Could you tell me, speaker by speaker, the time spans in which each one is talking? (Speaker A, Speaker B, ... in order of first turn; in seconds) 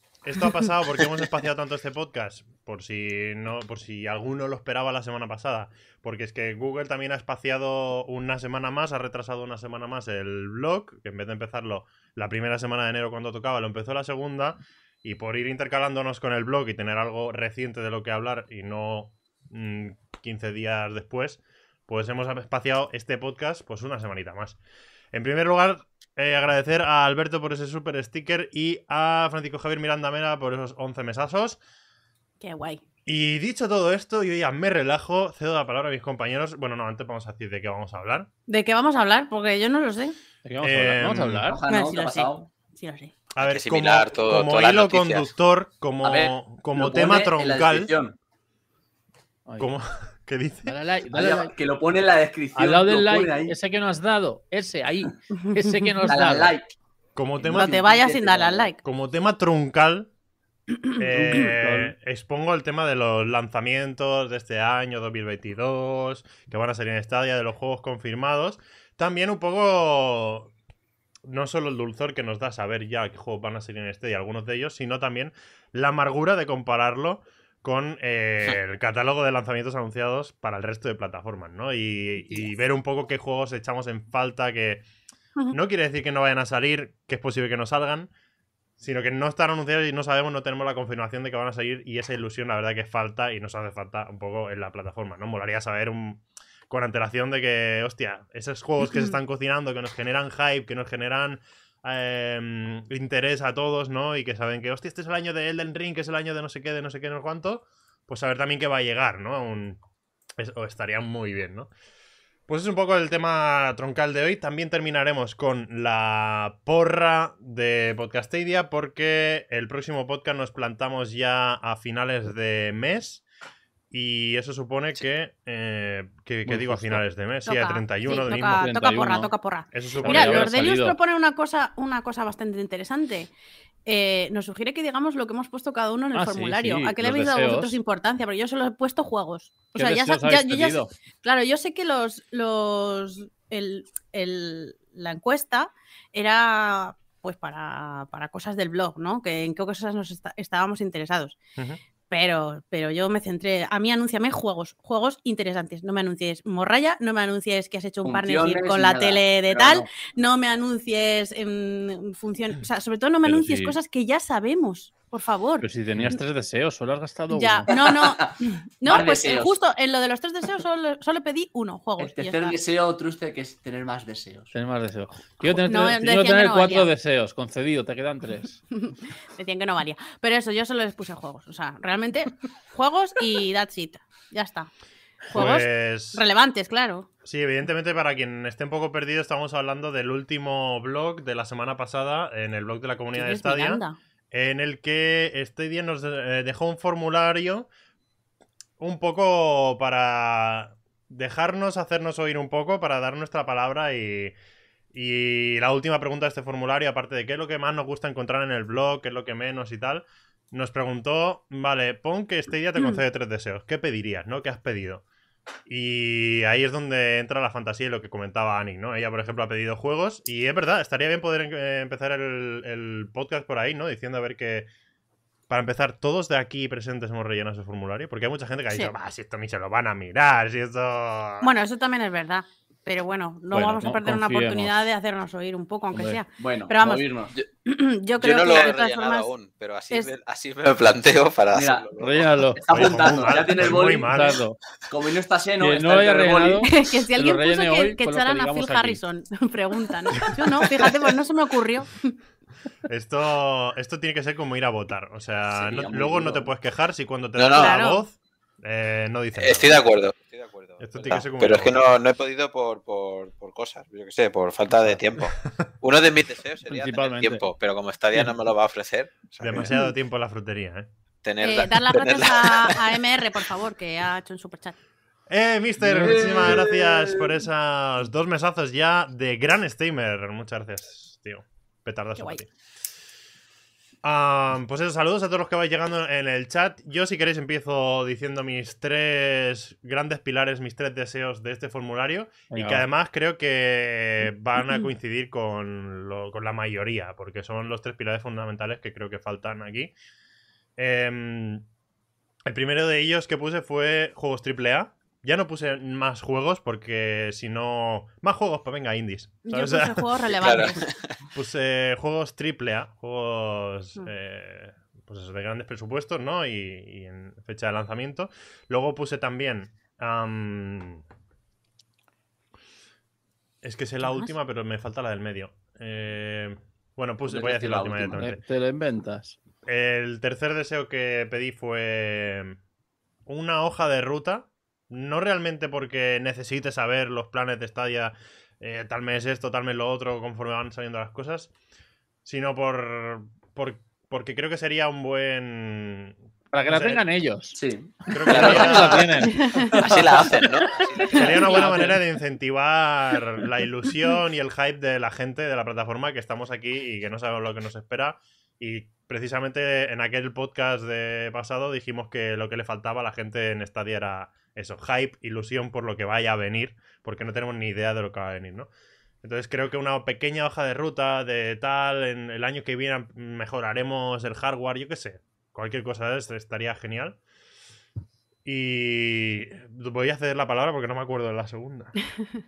Speaker A: 0.2-24.6, 25.1-31.6, 33.0-38.3, 40.6-41.4, 43.4-47.9, 49.6-50.7, 57.1-57.8, 58.8-60.1, 61.0-70.5, 71.3-84.8, 85.5-88.1, 88.8-109.8, 110.4-111.7, 112.5-123.2, 123.9-128.7, 129.7-130.5, 185.3-186.2, 187.2-197.7, 198.8-204.3, 204.9-215.0, 215.7-224.7, 225.5-231.5, 242.7-244.4, 252.9-259.8, 260.8-261.9, 269.4-270.9, 275.3-282.5, 284.0-299.9, 300.8-301.6, 302.4-310.1, 311.3-321.0, 323.6-328.4, 329.6-332.6, 333.2-341.5, 342.2-346.1, 346.7-347.0, 348.1-349.2, 351.1-368.7, 369.2-377.2, 378.4-381.9
Speaker B: 32.4-32.8, 38.5-40.2, 41.7-43.1, 55.3-56.1, 57.5-58.8, 98.9-99.2, 127.5-133.3, 133.8-151.4, 152.1-166.2, 167.3-172.6, 175.4-176.9, 178.8-184.7, 185.3-187.1, 193.1-194.0, 212.8-213.0, 231.4-237.1, 237.7-239.3, 246.6-252.1, 257.5-258.0, 271.4-274.8, 282.2-282.4, 309.4-310.9, 324.0-324.3, 349.3-349.7, 351.1-351.6
Speaker C: 40.4-41.6, 49.5-49.7, 50.6-51.5, 52.5-56.6, 61.0-61.9, 126.5-127.0, 128.1-129.3, 130.0-131.0, 136.1-137.8, 139.7-140.9, 163.2-163.8, 165.6-167.7, 174.5-178.6, 233.5-234.9, 235.9-236.2, 242.0-244.6, 245.6-249.0, 266.6-267.4, 275.8-276.7, 292.5-292.8, 328.1-329.4, 346.5-347.6, 348.2-349.7, 351.2-352.0
Speaker D: 41.5-42.5, 46.0-48.1, 51.1-53.5, 56.1-56.7, 57.4-58.7, 158.0-159.9, 167.8-168.3, 168.8-169.5, 172.0-174.5, 236.4-237.3, 241.5-241.9, 242.5-244.1, 244.9-246.7, 255.6-256.4, 276.0-277.3, 327.3-328.2, 347.5-351.9
Speaker E: 43.4-45.3, 238.2-242.4, 257.4-257.8, 259.4-269.8, 271.2-272.8, 310.3-311.1, 349.8-351.4